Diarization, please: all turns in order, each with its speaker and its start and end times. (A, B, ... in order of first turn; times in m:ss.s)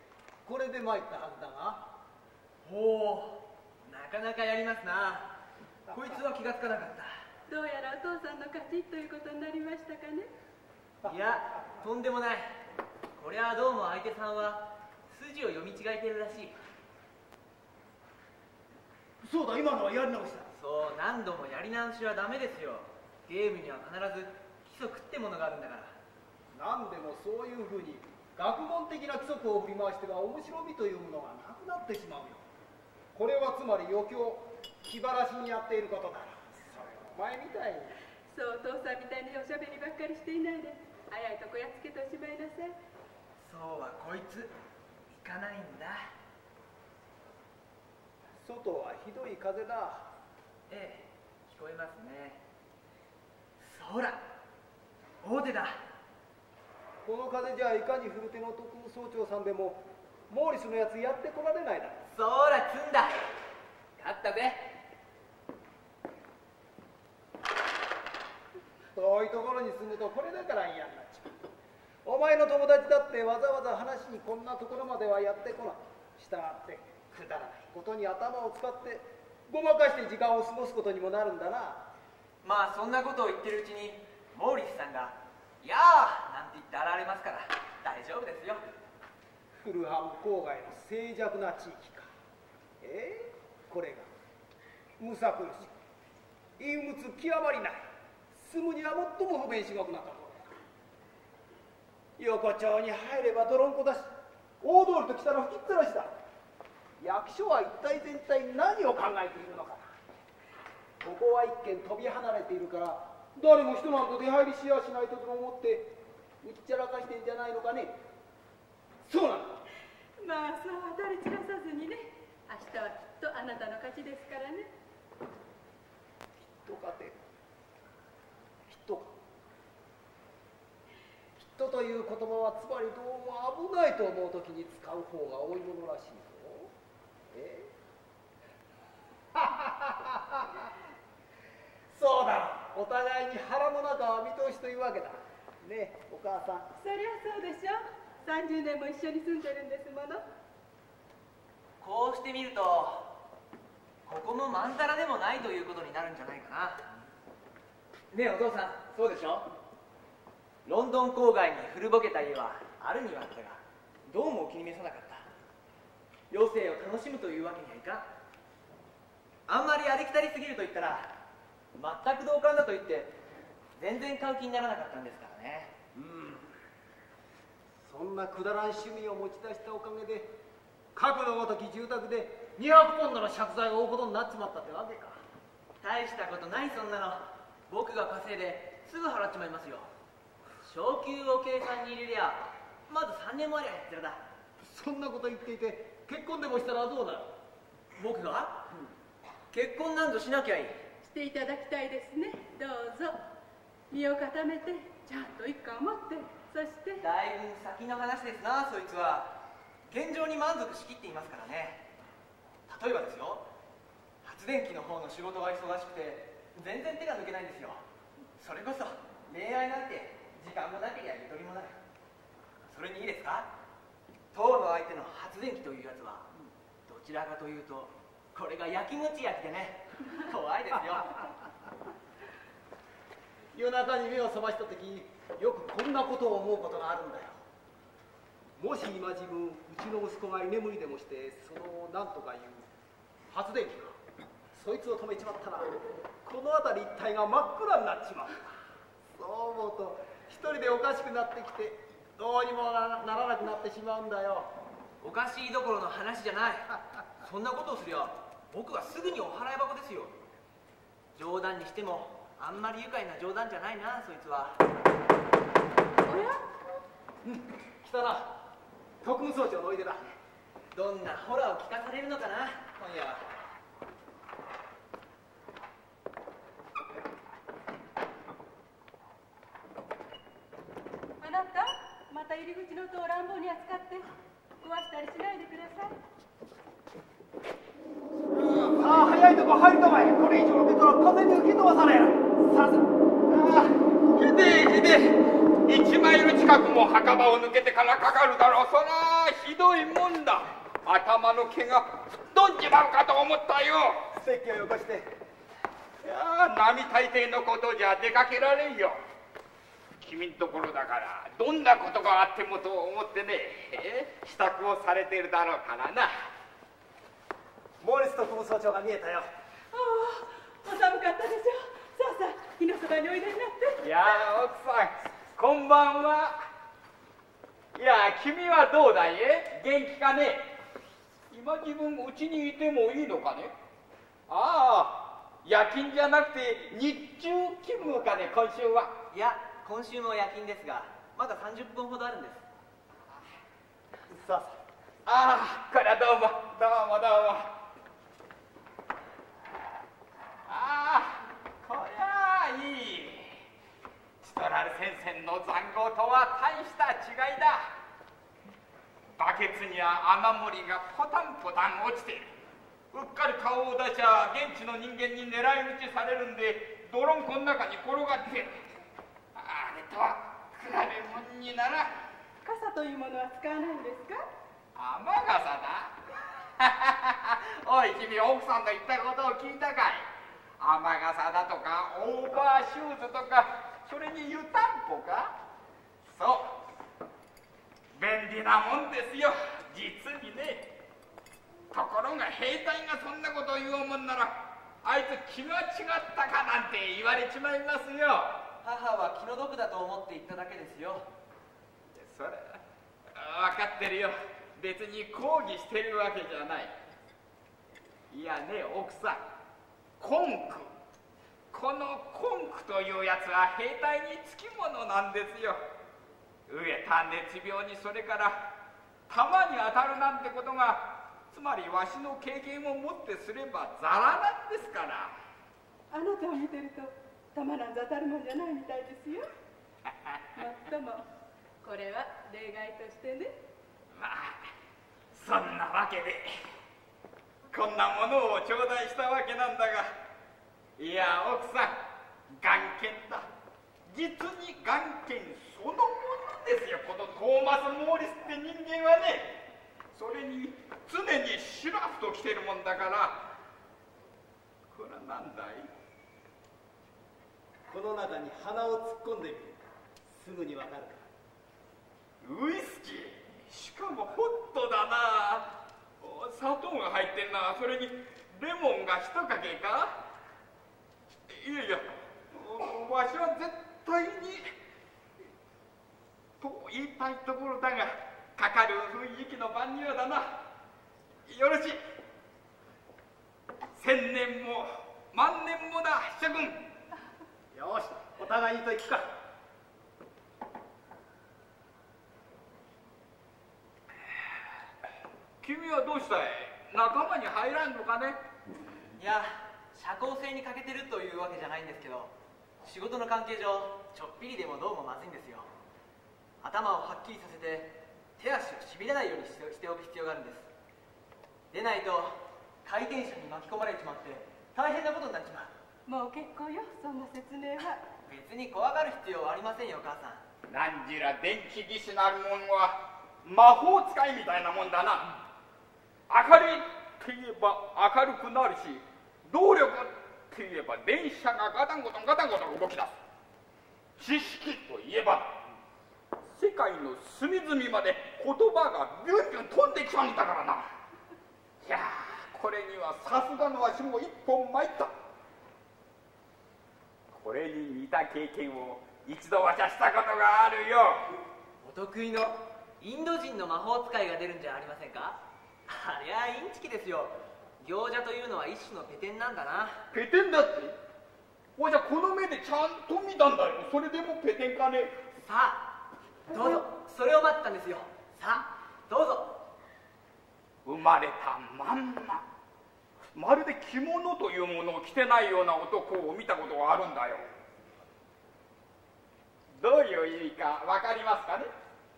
0:00.4-0:01.9 A
0:02.6-0:05.3 B
0:05.9-0:07.1 B
0:07.5-0:10.3 C
0:11.0-0:12.5 B
0:13.2-0:16.6 B
0:19.2-0:20.5 A
0:20.5-0:26.0 B
0:26.5-0:32.4 A
0:33.1-0:38.0 A
0:38.3-0:42.8 C
0:43.4-0:44.5 B
0:45.1-0:46.0 B
0:48.4-0:50.1 A
0:50.7-0:52.4 B
0:53.6-0:54.2 B
0:55.2-0:55.8 B
0:57.0-1:02.0 A
1:02.1-1:03.3 B
1:04.0-1:04.7 B
1:08.9-1:11.4 A
1:12.0-1:21.9 A
1:22.4-1:28.6 B
1:29.6-1:32.1 A
1:32.8-1:34.1 A
1:35.0-1:35.7 A
1:36.6-1:40.6 A
1:42.2-1:46.1 A
1:47.0-1:49.9 A
1:51.0-1:57.9 A
1:59.0-1:59.6 A
2:00.2-2:04.7 C
2:06.5-2:07.2 A
2:08.7-2:09.1 A
2:11.4-2:16.7 A
2:17.3-2:17.7 A
2:19.3-2:20.7 A
2:21.9-2:26.7 A
2:26.8-2:30.2 C
2:31.8-2:33.1 B
2:34.0-2:36.8 B
2:38.1-2:39.5 B
2:40.6-2:45.3 B
2:46.3-2:48.1 B
2:49.5-2:51.1 B
2:51.7-2:53.1 B
2:53.8-2:55.7 B
2:55.9-2:56.5 A
2:57.8-3:00.3 A
3:00.9-3:05.2 A
3:05.8-3:09.9 B
3:10.6-3:14.2 B
3:14.6-3:17.3 A
3:18.0-3:18.7 B
3:19.5-3:20.8 B
3:21.0-3:23.2 C
3:23.9-3:27.0 C
3:27.0-3:31.9 B
3:32.7-3:33.5 B
3:34.2-3:37.8 B
3:38.4-3:41.8 B
3:42.7-3:43.5 B
3:44.3-3:46.3 B
3:46.8-3:51.2 B
3:53.5-3:57.4 A
3:58.6-4:02.7 A
4:03.3-4:04.0 A
4:04.5-4:08.5 A
4:09.1-4:14.6 A
4:15.0-4:20.2 B
4:21.1-4:24.6 B
4:26.0-4:26.4 C
4:27.8-4:28.2 A
4:27.9-4:28.2 B
4:29.0-4:30.1 A
4:30.7-4:33.2 B
4:41.2-4:44.1 C
4:44.6-4:45.9 C
4:48.3-4:48.9 D
4:48.8-4:52.9 A
4:53.3-5:04.0 D
5:04.1-5:05.1 A
5:06.0-5:09.0 D
5:10.0-5:16.3 D
5:17.8-5:19.3 A
5:19.7-5:23.8 C
5:23.8-5:26.4 D
5:27.7-5:30.4 D
5:31.3-5:33.5 D
5:34.3-5:39.0 D
5:39.1-5:42.4 B
5:44.1-5:44.6 A
5:45.0-5:47.5 D
5:50.5-5:53.4 D
5:54.2-5:57.7 D
5:59.2-6:02.3 D
6:02.9-6:08.6 D
6:09.3-6:11.9 D
6:12.4-6:14.2 C
6:14.7-6:20.1 D
6:20.6-6:25.3 D
6:26.0-6:26.5 D
6:27.9-6:30.7 D
6:31.7-6:38.4 D
6:38.6-6:41.1 B
6:41.9-6:42.6 D
6:43.1-6:46.7 D
6:48.1-6:49.2 D
6:50.0-6:50.7 D
6:51.5-6:55.6 D
6:56.5-6:58.4 D
6:59.1-7:05.1 D
7:05.9-7:09.3 C
7:10.4-7:11.0 C
7:11.6-7:13.4 C
7:14.0-7:14.4 D
7:15.1-7:16.5 D
7:17.5-7:19.9 D
7:20.8-7:23.3 D
7:23.8-7:33.2 D
7:34.7-7:35.7 D
7:37.7-7:41.1 A
7:42.2-7:49.9 D
7:51.3-7:54.5 D
7:56.4-8:00.3 D
8:01.2-8:01.8 D
8:03.7-8:06.6 D
8:07.5-8:09.1 A
8:15.4-8:18.2 D
8:18.9-8:25.5 B
8:26.4-8:30.5 B
8:31.5-8:35.5 B
8:35.9-8:37.8 C
8:38.0-8:40.2 B
8:40.5-8:45.1 D
8:46.1-8:52.9 D
8:54.0-8:55.4 D
8:56.3-9:00.6 D
9:01.6-9:04.9 D
9:07.1-9:11.2 D
9:11.6-9:19.8 B
9:19.9-9:20.8 D
9:21.6-9:24.9 D
9:25.2-9:25.7 B
9:26.3-9:29.4 B
9:30.6-9:32.2 D
9:33.1-9:37.2 D
9:39.5-9:41.5 D